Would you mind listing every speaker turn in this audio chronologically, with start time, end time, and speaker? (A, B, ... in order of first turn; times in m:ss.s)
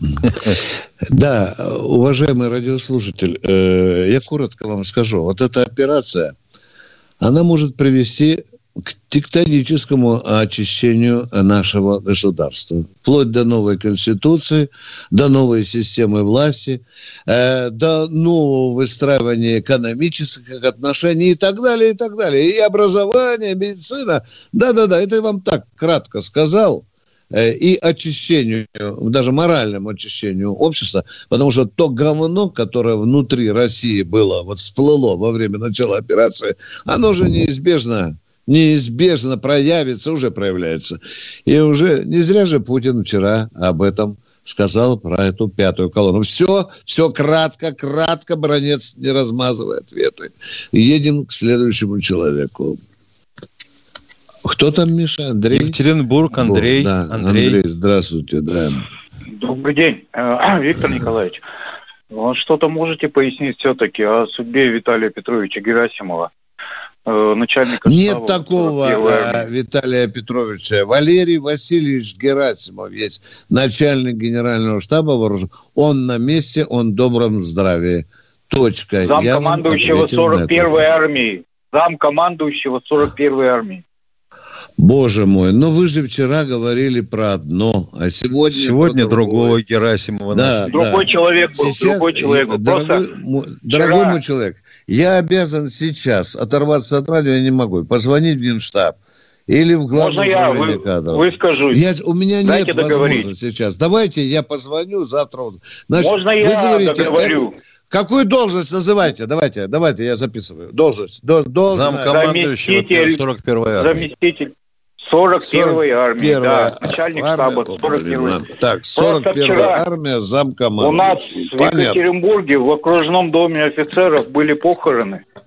0:00.2-0:00.6 A
0:01.1-0:06.3 B
0:07.2-0:52.8 B
0:54.4-0:55.8 B
0:55.5-0:57.6 A
0:56.3-0:58.8 B
0:59.3-1:01.4 C
1:02.1-1:06.3 C
1:07.0-1:09.5 C
1:07.8-1:20.8 B
1:19.0-1:23.8 C
1:24.8-1:29.6 B
1:28.5-1:30.7 A
1:30.3-1:39.0 B
1:30.7-1:33.0 C
1:33.7-1:34.2 C
1:39.5-1:52.2 B
1:39.9-1:41.8 C
1:42.4-1:43.3 C
1:45.9-1:47.6 C
1:51.7-1:54.1 A
1:52.0-1:53.2 C
1:53.8-1:59.8 C
1:55.4-2:02.0 B
2:00.8-2:05.2 C